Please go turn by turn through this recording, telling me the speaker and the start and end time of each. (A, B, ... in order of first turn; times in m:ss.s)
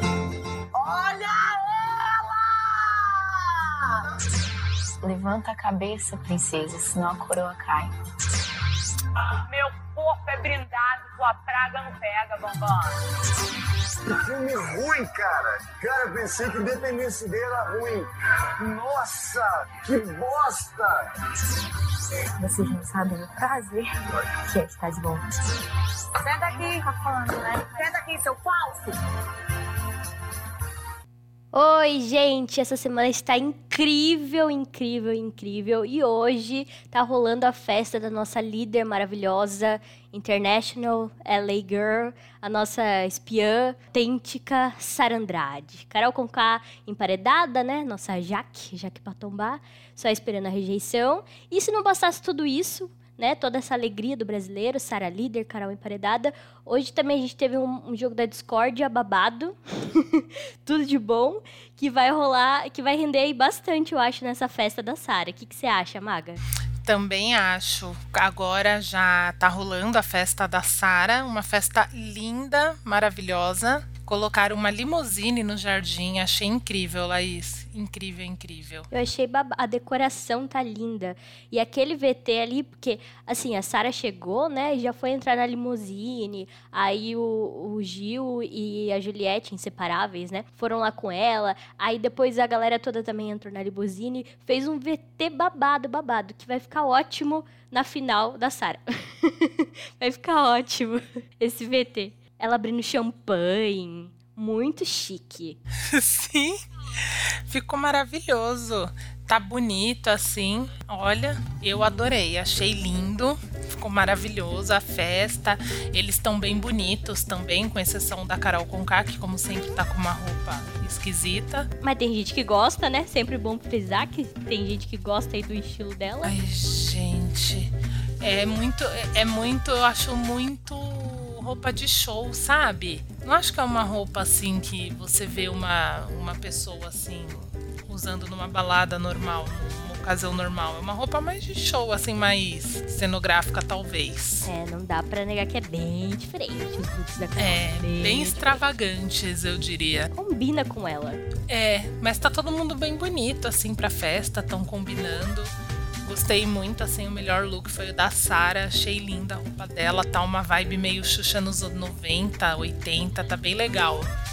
0:05.0-0:07.9 A
0:09.4-0:12.9 B
0:14.1-0:18.1 C
0:18.6-0:21.0 C
0:22.4-0:23.9 A
0:24.5-0:25.2 A
0:26.2-0:26.8 B
0:26.8-0:27.8 A
0:27.6-0:28.8 B
0:31.5-1:06.4 D
1:06.8-1:18.9 E
1:18.9-1:45.6 D
1:45.9-2:01.7 E
2:01.8-2:06.3 D
2:06.2-2:24.5 E
2:24.5-2:28.6 D
2:27.4-2:30.1 E
2:30.1-2:31.2 D
2:31.5-2:35.5 E
2:36.0-2:44.1 E